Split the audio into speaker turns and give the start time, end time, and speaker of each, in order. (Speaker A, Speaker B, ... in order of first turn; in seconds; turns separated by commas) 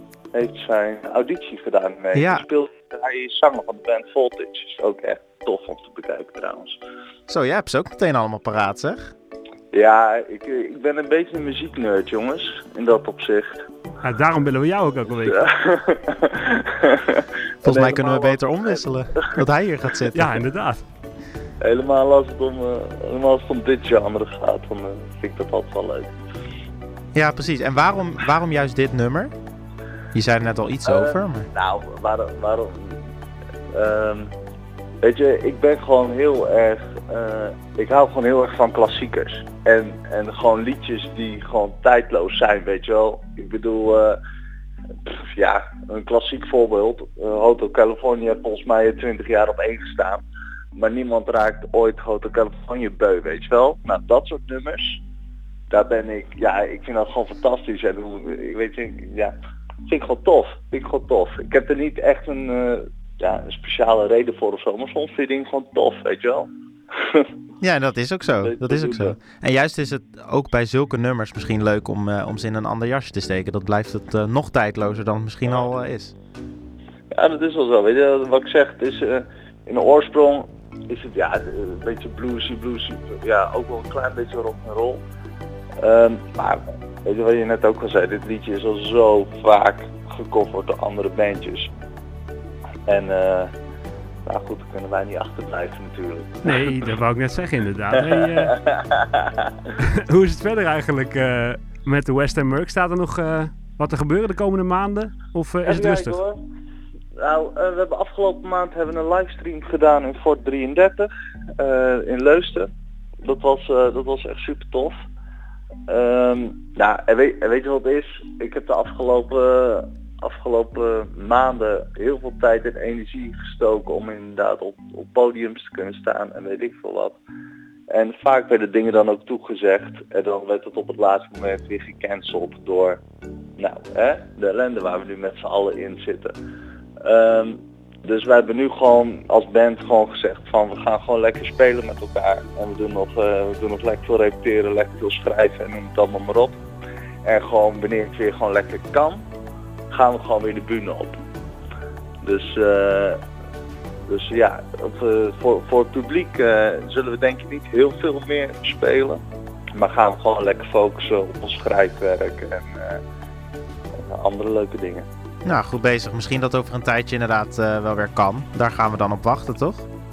Speaker A: 0.3-6.8, Speaker B: 2.1-2.4, Speaker B: 7.3-9.1, Speaker A: 9.7-13.6, Speaker C: 14.0-15.4, Speaker A: 15.2-19.2, Speaker B: 17.6-20.4, Speaker C: 20.1-20.8, Speaker A: 21.6-26.1, Speaker B: 27.1-29.3, Speaker B: 30.1-31.5, Speaker A: 30.9-32.9, Speaker A: 33.7-34.3, Speaker A: 35.0-44.2, Speaker A: 45.1-50.2, Speaker A: 50.8-55.0, Speaker A: 55.7-59.3, Speaker A: 59.9-66.5, Speaker B: 67.6-76.1, Speaker A: 68.4-69.2, Speaker A: 77.2-85.0, Speaker A: 85.8-91.7, Speaker A: 92.9-93.5, Speaker A: 94.2-96.8, Speaker C: 96.4-98.5, Speaker A: 97.9-99.3, Speaker C: 99.8-106.2, Speaker A: 105.6-106.4, Speaker A: 107.2-112.7, Speaker A: 113.2-115.0, Speaker A: 115.9-127.2, Speaker A: 127.9-133.0, Speaker A: 133.6-136.3, Speaker A: 137.0-146.5, Speaker A: 147.3-149.2, Speaker A: 149.9-151.2, Speaker A: 152.2-153.2, Speaker A: 154.1-159.2, Speaker A: 159.8-163.0, Speaker A: 164.1-165.0, Speaker B: 165.4-169.8